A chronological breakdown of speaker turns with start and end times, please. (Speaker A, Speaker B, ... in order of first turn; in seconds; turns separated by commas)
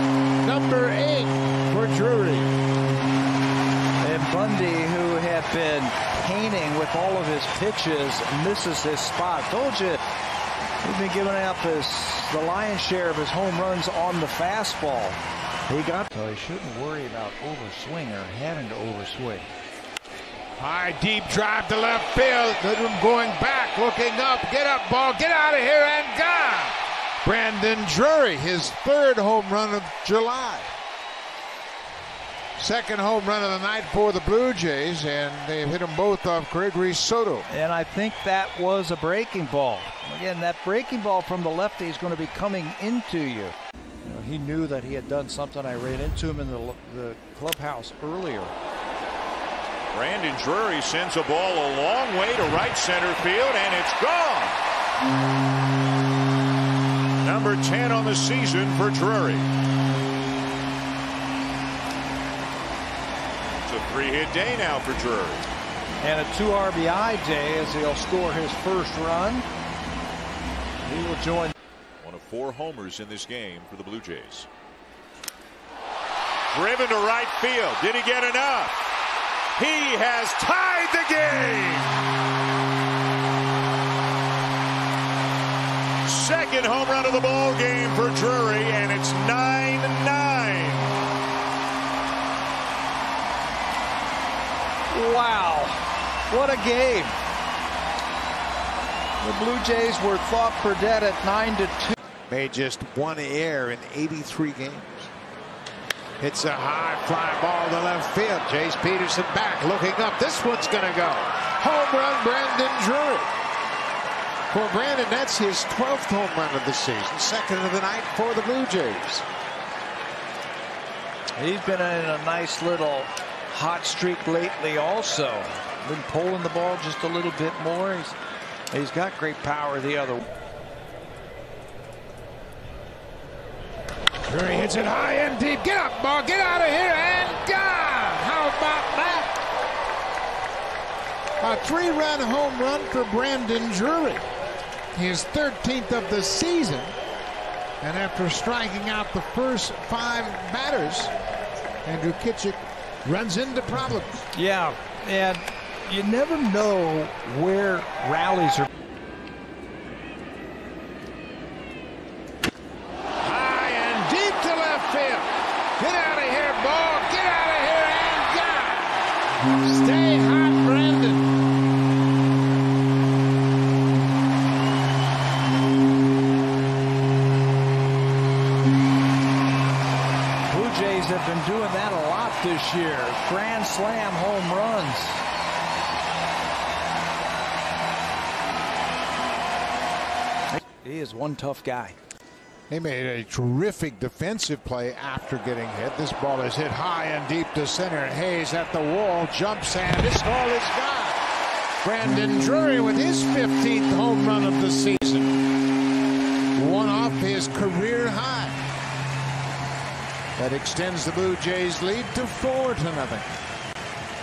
Speaker A: 0.4-2.5, Speaker B: 4.0-10.0, Speaker B: 10.8-19.5, Speaker A: 20.6-30.7, Speaker A: 32.6-37.5, Speaker B: 37.5-48.5, Speaker C: 49.9-54.6, Speaker C: 57.2-59.5, Speaker C: 63.6-65.4, Speaker B: 66.0-69.5, Speaker B: 70.8-71.5, Speaker C: 72.0-74.5, Speaker C: 76.5-78.8, Speaker C: 79.6-82.1, Speaker C: 86.0-91.0, Speaker B: 94.9-97.2, Speaker B: 99.2-102.0, Speaker A: 102.3-105.1, Speaker A: 106.2-113.3, Speaker A: 114.5-119.2, Speaker B: 121.3-128.2, Speaker B: 128.7-130.3, Speaker A: 134.2-139.4, Speaker A: 141.4-144.2, Speaker A: 144.9-146.9, Speaker A: 147.8-151.1, Speaker A: 151.8-154.3, Speaker B: 154.3-158.7, Speaker A: 163.2-169.1, Speaker A: 169.6-171.3, Speaker B: 180.5-185.2, Speaker B: 190.5-192.0, Speaker A: 192.7-201.2, Speaker A: 201.8-205.4, Speaker A: 206.6-208.6, Speaker A: 210.4-213.3